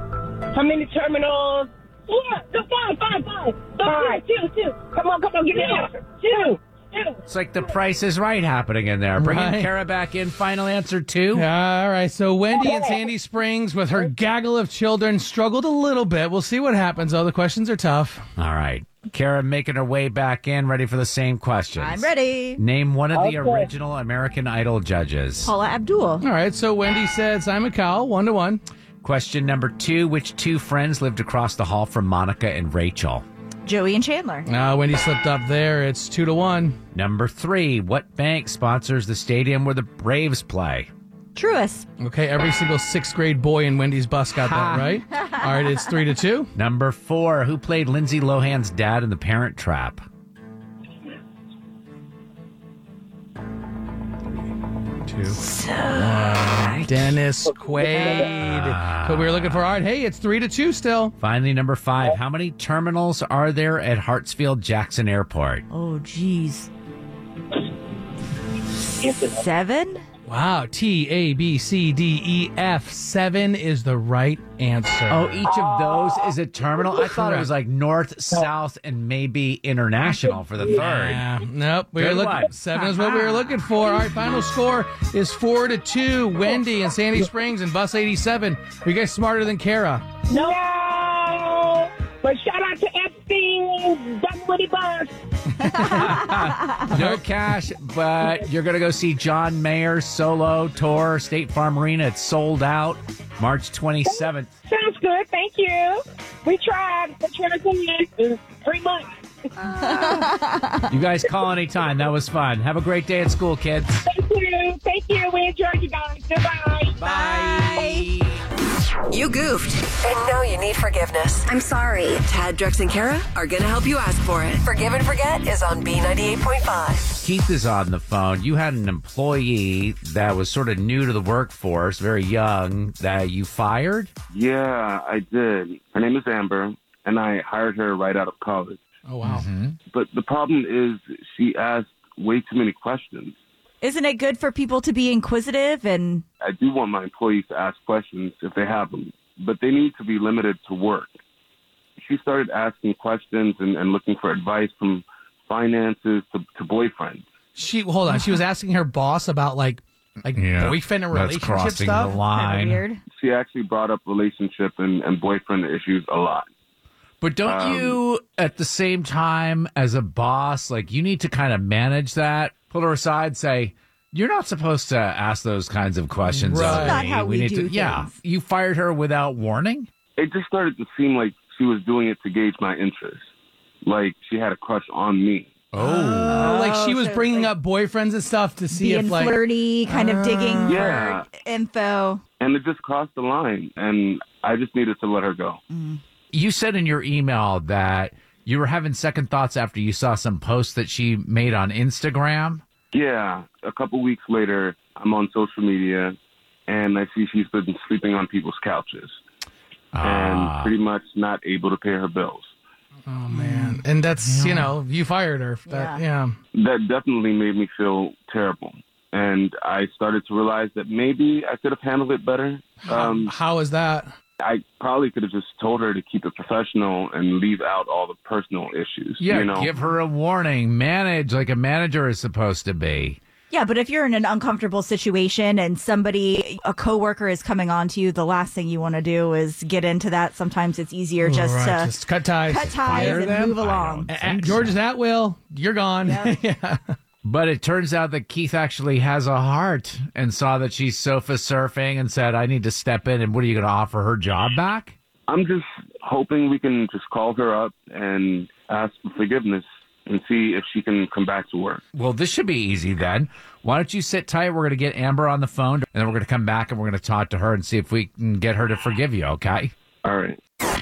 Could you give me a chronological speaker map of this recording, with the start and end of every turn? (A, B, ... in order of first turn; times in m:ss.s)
0:00.5-0:07.2 A
0:07.3-0:11.4 B
0:09.2-0:09.7 C
0:11.3-0:18.2 C
0:12.6-0:13.0 A
0:18.4-0:25.5 B
0:21.8-0:22.6 D
0:23.1-0:23.6 A
0:25.4-0:26.2 D
0:26.2-0:28.6 C
0:29.0-0:33.2 B
0:33.6-0:34.5 D
0:34.5-0:36.8 C
0:36.9-0:40.9 B
0:41.4-0:41.9 D
0:42.0-0:46.5 C
0:44.4-0:45.0 B
0:46.6-0:50.0 B
0:55.0-1:01.1 C
0:55.4-0:56.9 D
0:58.3-0:59.6 B
1:01.2-1:05.6 B
1:05.7-1:06.7 D
1:09.1-1:10.0 D
1:10.2-1:15.5 C
1:15.1-1:21.2 B
1:17.1-1:17.5 C
1:20.7-1:30.0 C
1:22.0-1:22.5 B
1:30.3-1:35.1 A
1:35.6-1:36.2 C
1:35.8-1:36.8 D
1:35.8-1:44.5 B
1:36.9-1:37.2 C
1:44.1-1:50.3 A
1:49.6-1:50.9 D
1:50.9-1:54.0 B
1:54.0-1:57.0 A
1:57.0-1:58.4 B
1:57.0-1:58.1 D
1:59.1-2:07.1 E
2:07.2-2:14.1 B
2:14.3-2:18.8 F
2:19.0-2:19.5 C
2:19.2-2:19.8 B
2:19.9-2:23.4 F
2:23.8-2:26.2 D
2:26.4-2:31.2 F
2:32.0-2:37.3 F
2:37.5-2:42.1 C
2:40.3-2:42.8 B
2:42.1-2:43.0 D
2:43.1-2:46.5 F
2:47.2-2:59.9 B
2:47.5-2:48.0 F
2:56.3-2:57.0 C
2:56.5-2:58.1 D
3:00.2-3:03.3 F
3:03.8-3:05.6 F
3:05.7-3:06.5 B
3:05.8-3:10.9 C
3:06.0-3:07.5 D
3:08.7-3:12.2 D
3:10.7-3:11.2 F
3:12.4-3:15.6 F
3:15.7-3:16.0 D
3:16.3-3:22.6 B
3:22.9-3:29.2 F
3:29.9-3:30.8 B
3:30.0-3:32.5 F
3:33.1-3:36.4 C
3:34.3-3:34.7 B
3:35.7-3:36.0 D
3:36.5-3:43.3 F
3:42.8-3:44.1 C
3:44.4-3:49.7 F
3:49.2-3:53.2 B
3:53.5-4:01.9 D
4:01.2-4:03.5 C
4:02.5-4:04.1 D
4:02.8-4:04.8 B
4:04.1-4:07.0 C
4:06.0-4:06.3 D
4:07.2-4:15.0 B
4:15.3-4:21.8 F
4:21.9-4:29.7 B
4:30.0-4:30.4 F